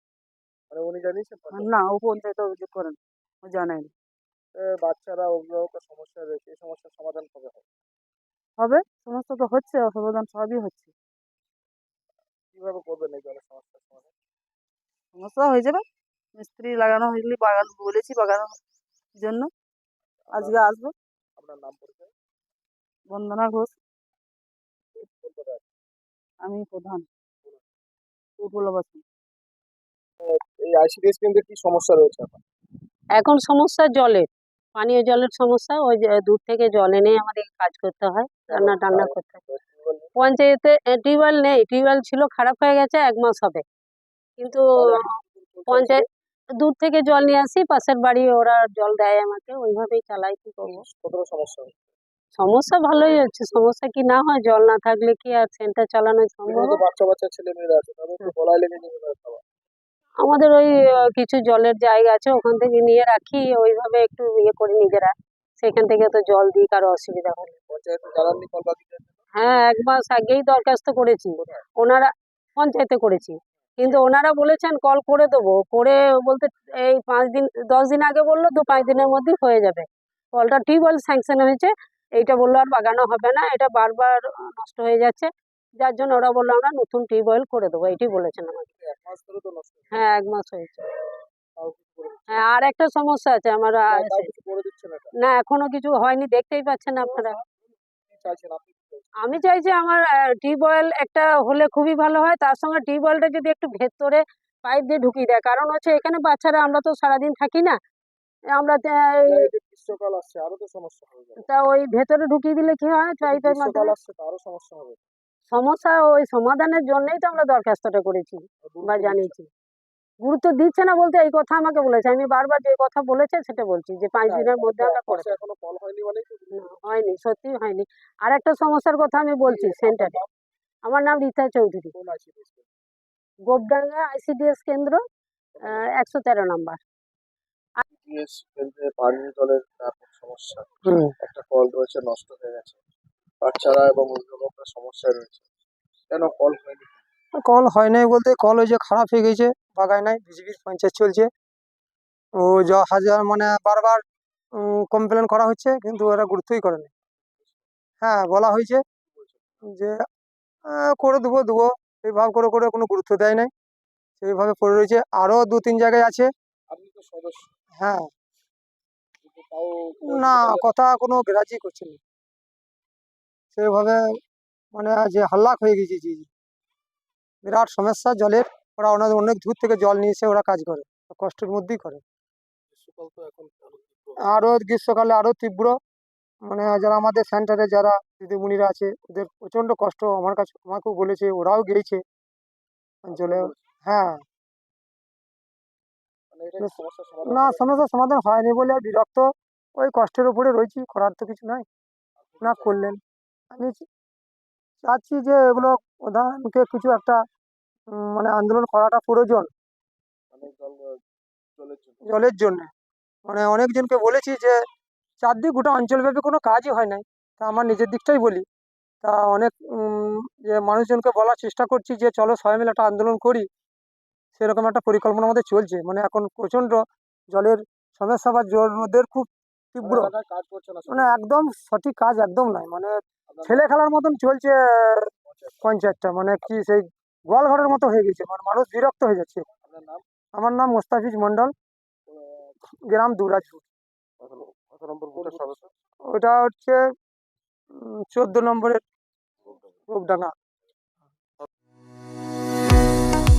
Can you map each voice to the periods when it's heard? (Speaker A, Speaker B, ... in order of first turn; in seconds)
Speaker A: 0.7-1.8, 4.5-7.7, 12.5-14.1, 20.3-20.6, 21.4-22.1, 24.9-25.7, 30.2-32.4, 38.5-40.1, 44.8-46.1, 50.6-51.8, 56.5-59.4, 67.7-69.6, 71.4-71.6, 88.8-90.2, 91.6-92.5, 93.9-95.1, 97.1-97.4, 98.1-99.3, 109.3-111.4, 113.2-115.0, 118.6-119.4, 124.3-127.1, 129.5-130.3, 131.9-132.7, 135.6-135.9, 137.9-140.7, 141.2-142.8, 143.4-145.5, 146.1-147.0, 159.1-159.4, 166.7-167.5, 169.2-170.7, 182.7-184.2, 193.1-193.6, 196.3-197.8, 202.2-202.8, 210.3-211.0, 211.6-212.0, 229.8-231.3, 233.3-233.6, 235.2-235.6, 239.6-240.0, 242.1-242.6, 245.1-245.7
Speaker B: 1.5-3.9, 8.6-10.9, 15.1-15.8, 16.4-18.6, 19.2-19.5, 20.3-20.9, 23.1-23.8, 26.4-27.1, 28.4-29.0
Speaker C: 33.2-34.2, 34.8-39.4, 40.2-43.6, 44.4-44.7, 45.7-46.0, 46.6-50.8, 52.4-56.8, 60.2-67.5, 69.4-85.3, 85.8-88.7, 89.9-90.8, 92.3-94.3, 95.2-97.4, 99.2-107.8, 108.6-109.5, 111.5-113.9, 115.5-119.5, 120.2-125.4, 126.6-130.2, 130.9-131.9, 133.5-135.0, 135.7-136.8
Speaker D: 140.9-141.1, 147.4-151.3, 152.4-154.0, 154.6-156.9, 158.0-158.8, 160.7-163.5, 164.2-166.3, 167.8-168.1, 170.1-172.0, 173.6-174.0, 174.8-176.3, 177.4-182.0, 184.3-185.8, 186.5-192.0, 193.1-194.2, 196.6-201.7, 202.4-203.0, 203.5-203.8, 204.9-207.2, 207.9-209.5, 212.1-212.7, 213.3-214.6, 215.2-218.4, 219.0-223.5, 224.4-226.8, 227.3-230.1, 230.9-232.9, 233.4-235.1, 235.6-239.4, 240.4-241.5, 242.9-243.6, 246.1-246.8, 247.8-248.8, 249.9-250.3